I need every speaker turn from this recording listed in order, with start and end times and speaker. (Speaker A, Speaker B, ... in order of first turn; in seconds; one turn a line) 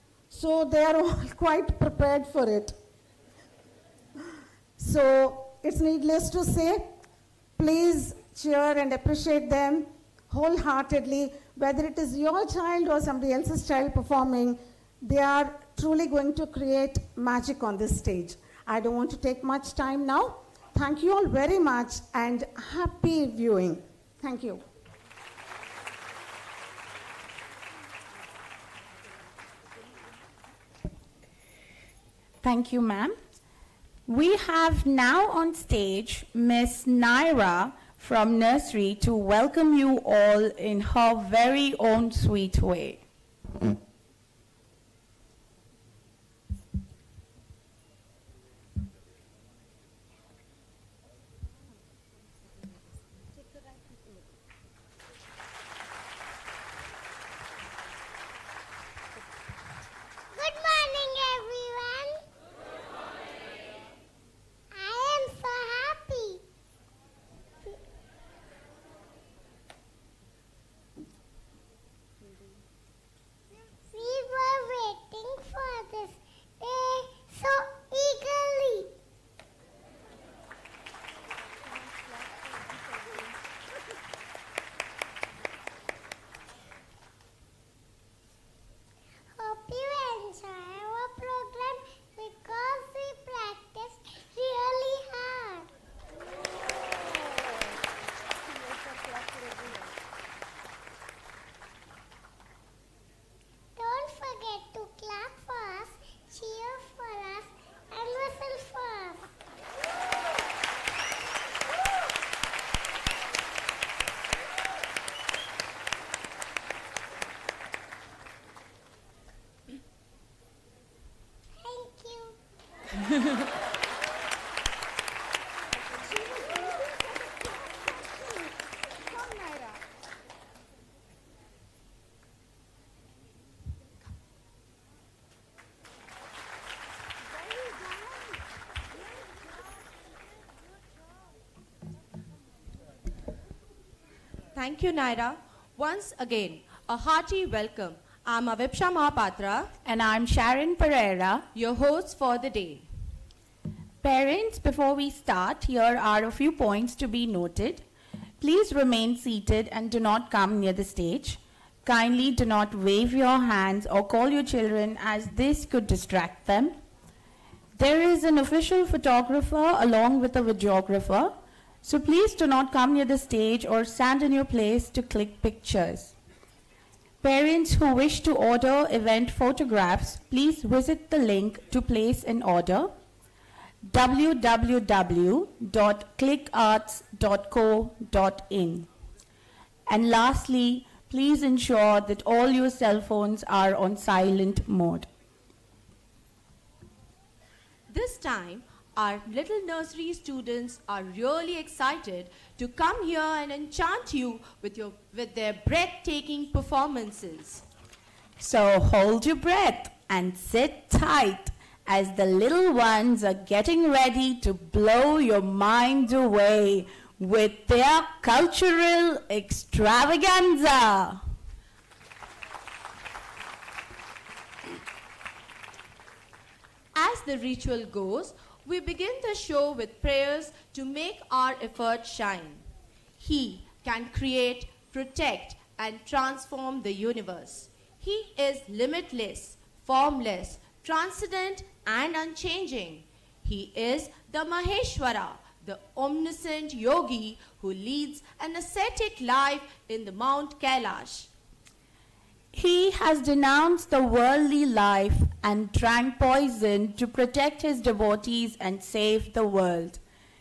Speaker A: 0.3-2.8
Speaker A: 4.8-6.9
Speaker A: 7.6-24.6
Speaker B: 32.4-33.2
Speaker B: 34.1-43.0
Speaker C: 60.4-62.2
Speaker C: 64.8-66.4
Speaker C: 73.9-78.9
Speaker C: 89.4-95.7
Speaker C: 103.8-109.3
Speaker C: 121.6-122.4
Speaker D: 144.6-149.7
Speaker B: 149.8-151.5
Speaker D: 151.6-152.9
Speaker B: 154.0-157.8
Speaker B: 158.4-166.8
Speaker B: 167.8-176.1
Speaker B: 177.2-182.9
Speaker B: 183.8-188.9
Speaker B: 189.9-195.1
Speaker D: 197.9-207.6
Speaker B: 208.4-221.2
Speaker D: 226.9-232.7
Speaker D: 233.2-251.3
Speaker B: 252.5-260.0